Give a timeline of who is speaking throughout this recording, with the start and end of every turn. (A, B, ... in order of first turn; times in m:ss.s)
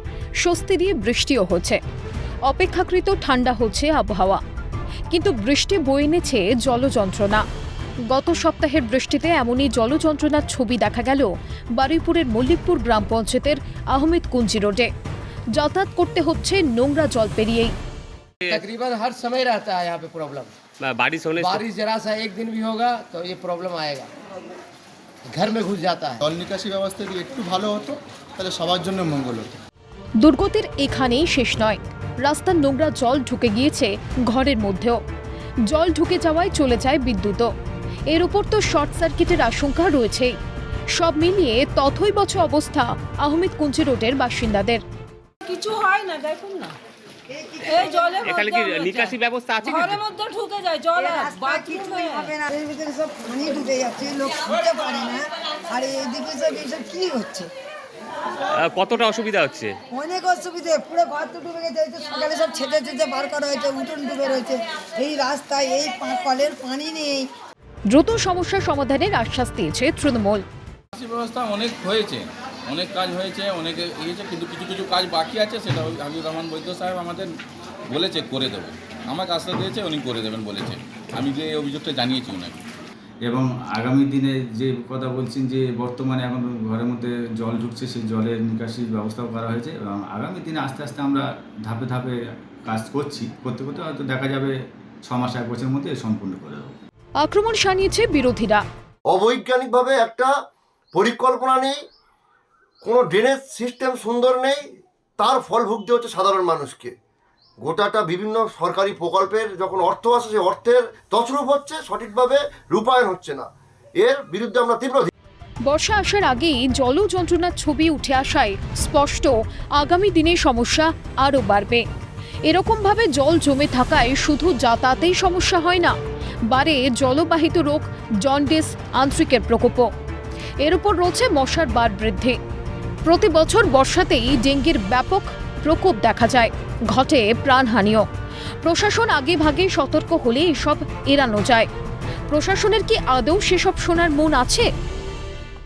0:00.4-0:01.8 A
0:02.5-0:04.4 A
0:05.1-0:07.4 A
0:08.1-0:14.9 A
0:15.6-0:17.7 A
0:18.5-0:20.5 B
0:20.8-0:21.6 C
0:21.4-0:24.1 B
0:25.3-0:26.2 B
0:26.2-0:29.6 D
0:30.2-0:35.0 A
0:35.7-0:37.5 A
0:38.1-0:40.4 A
0:41.0-0:44.8 A
0:45.4-0:46.8 E
0:47.3-0:48.1 F
0:47.6-0:52.3 E
0:48.2-0:50.0 C
0:51.0-0:57.5 F
0:58.5-0:59.8 C
0:59.9-1:07.3 F
1:07.9-1:10.4 A
1:10.9-1:17.3 G
1:17.9-1:22.6 G
1:23.3-1:32.2 H
1:32.7-1:34.5 H
1:35.1-1:36.8 H
1:37.2-1:38.6 A
1:39.1-1:40.3 I
1:40.9-1:41.8 I
1:42.8-1:44.6 I
1:45.2-1:46.9 I
1:47.6-1:53.5 I
1:54.0-1:55.1 I
1:55.7-2:01.8 A
2:02.5-2:06.0 A
2:06.5-2:09.9 A
2:10.6-2:12.4 A
2:13.1-2:18.1 A
2:18.6-2:21.7 A
2:22.3-2:24.7 A